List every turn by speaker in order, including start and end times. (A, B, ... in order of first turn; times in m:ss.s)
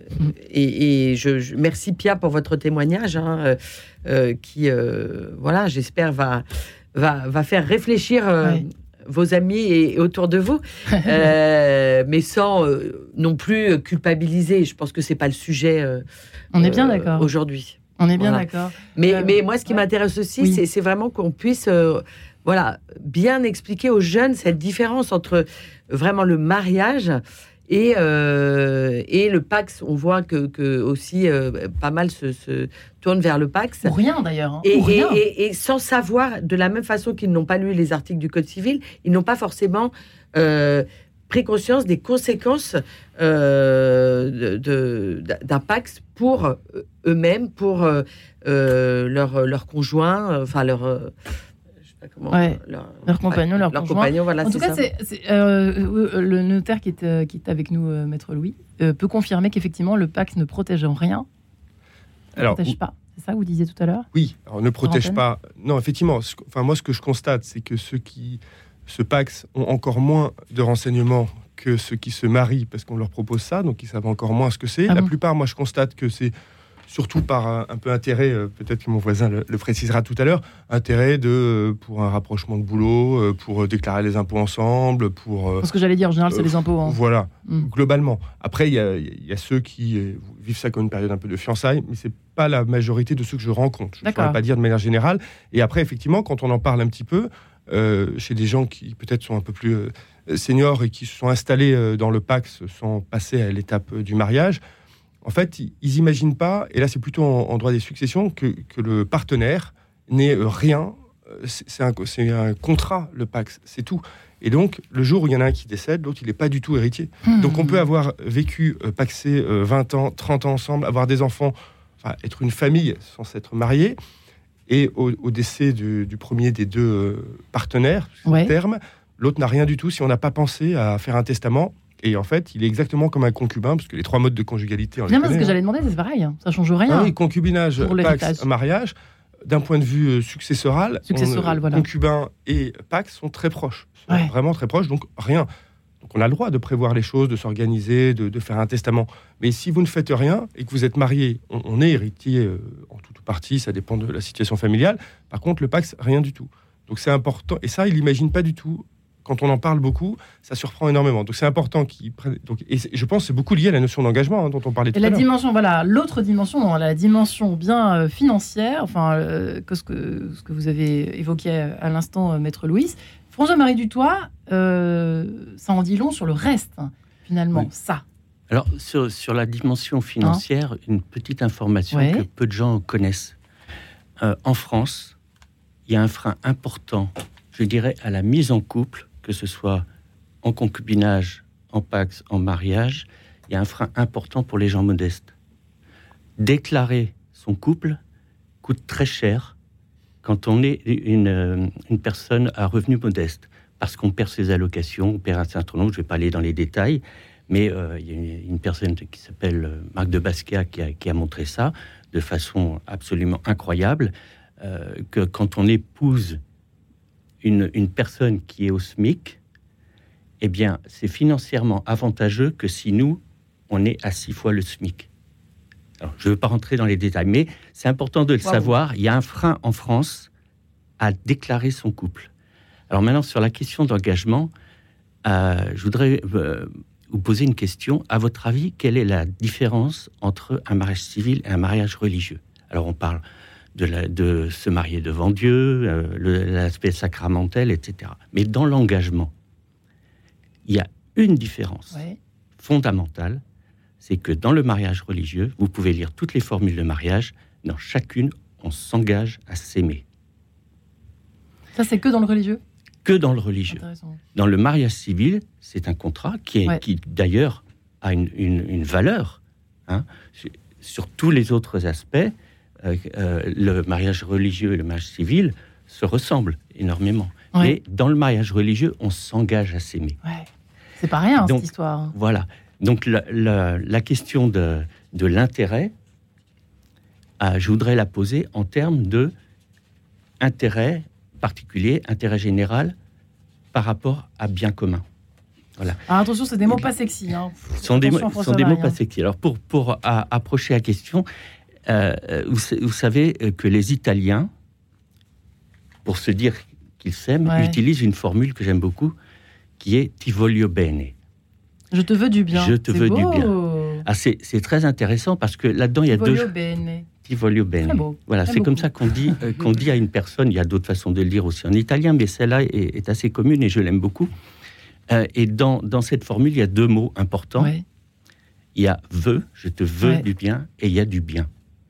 0:00.4-0:16.0 A
0:16.5-0:17.3 B
0:16.6-0:33.9 A
0:18.0-0:19.8 B
0:33.8-0:35.2 B
0:34.6-0:51.1 A
0:52.0-0:54.8 A
0:52.3-1:01.3 B
1:02.4-1:02.8 C
1:02.4-1:04.1 B
1:04.1-1:16.3 C
1:04.8-1:05.2 B
1:16.9-1:25.7 C
1:25.6-1:27.7 B
1:26.3-1:44.6 C
1:34.0-1:34.4 B
1:45.2-2:04.0 C
1:57.3-1:57.8 B
2:04.7-2:15.6 C
2:08.3-2:08.5 B
2:15.1-2:17.1 B
2:16.9-2:19.0 C
2:17.8-2:18.5 B
2:19.5-2:25.5 C
2:21.1-2:21.8 B
2:26.0-2:45.3 C
2:44.9-2:58.0 B
2:58.5-3:03.4 D
3:01.9-3:02.2 B
3:04.2-3:05.2 D
3:05.9-3:09.8 D
3:10.4-3:15.3 D
3:16.4-3:18.0 D
3:18.6-3:19.6 D
3:20.2-3:36.4 D
3:37.4-3:39.4 D
3:40.4-3:45.1 D
3:46.0-3:50.3 D
3:48.4-3:48.7 B
3:51.0-3:52.3 D
3:52.9-3:54.5 D
3:55.2-4:03.2 D
4:03.8-4:09.3 D
4:10.7-4:12.0 D
4:11.9-4:12.2 B
4:12.6-4:13.4 D
4:14.0-4:20.0 D
4:21.8-4:22.6 B
4:23.0-4:23.8 D
4:23.7-4:24.2 B
4:24.4-4:40.2 D
4:41.0-4:42.2 B
4:41.4-4:45.9 D
4:47.4-4:49.3 D
4:50.4-4:53.0 D
4:53.7-4:55.0 D
4:56.1-4:59.0 B
4:57.7-5:01.3 D
5:01.9-5:04.5 D
5:06.0-5:09.1 D
5:07.5-5:07.8 B
5:09.8-5:11.2 D
5:11.9-5:14.0 B
5:12.5-5:16.5 D
5:16.1-5:17.1 B
5:17.2-5:24.3 D
5:17.8-5:19.4 B
5:25.1-5:27.7 D
5:27.6-5:27.8 B
5:28.8-5:31.5 D